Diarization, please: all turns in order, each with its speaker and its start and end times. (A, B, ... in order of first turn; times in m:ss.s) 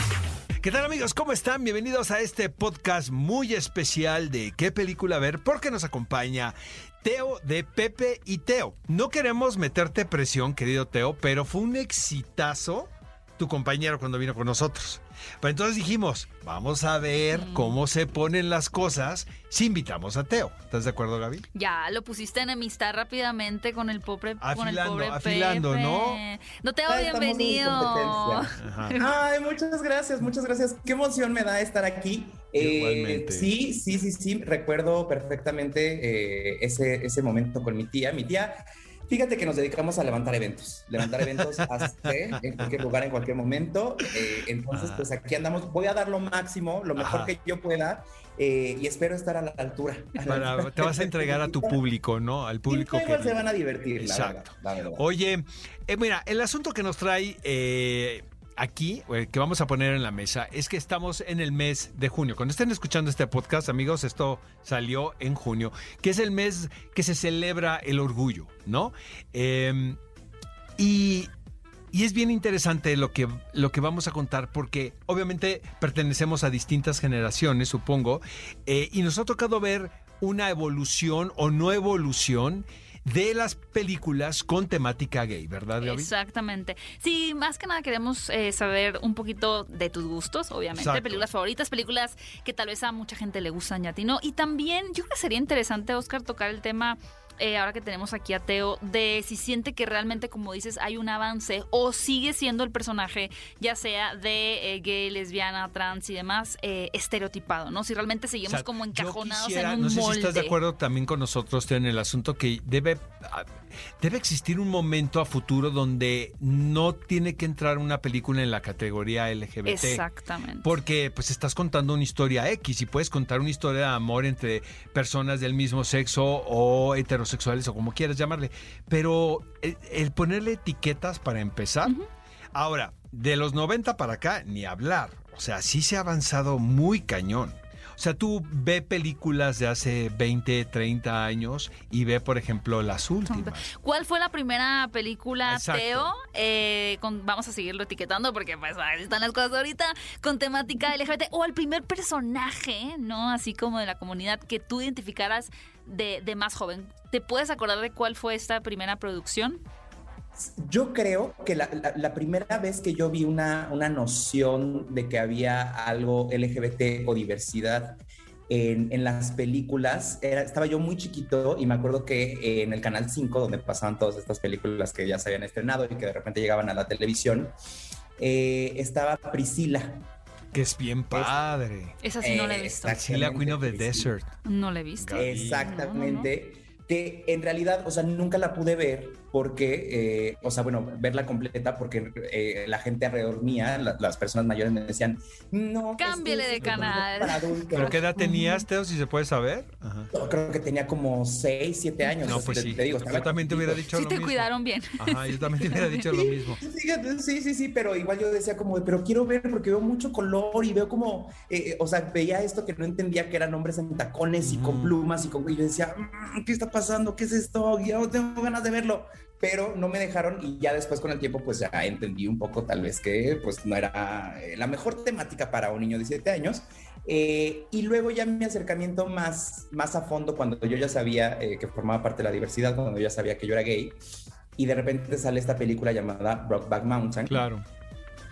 0:00.6-0:21.4 A
0:17.3-0:17.8 B
0:21.5-0:29.1 B
0:24.4-0:26.2 A
0:26.9-0:51.8 C
0:28.6-0:29.0 A
0:32.6-0:33.5 A
0:41.3-0:42.5 A
0:44.7-0:45.1 A
0:47.0-0:47.3 A
0:50.2-0:53.4 A
0:52.7-0:55.0 C
0:54.0-1:10.0 A
1:10.8-1:11.3 A
1:11.9-1:26.1 A
1:25.8-1:50.6 B
1:30.7-1:31.3 A
1:48.5-2:00.0 A
1:59.6-2:00.7 B
2:00.6-2:11.9 A
2:12.5-2:23.7 A
2:23.3-2:39.6 B
2:25.4-2:26.1 A
2:40.6-2:57.5 C
2:58.2-3:00.0 C
3:00.5-3:02.0 A
3:02.0-3:03.0 B
3:02.2-3:04.1 C
3:02.9-3:04.3 A
3:04.4-3:06.3 B
3:05.0-3:05.6 A
3:05.1-3:18.0 C
3:16.0-3:18.6 B
3:16.6-3:16.9 A
3:17.7-3:20.1 A
3:20.1-3:23.9 C
3:22.0-3:22.4 B
3:22.2-3:26.6 A
3:23.9-3:26.2 B
3:26.6-3:54.0 C
3:34.4-3:34.9 A
3:54.6-3:57.4 C
3:57.3-3:57.6 A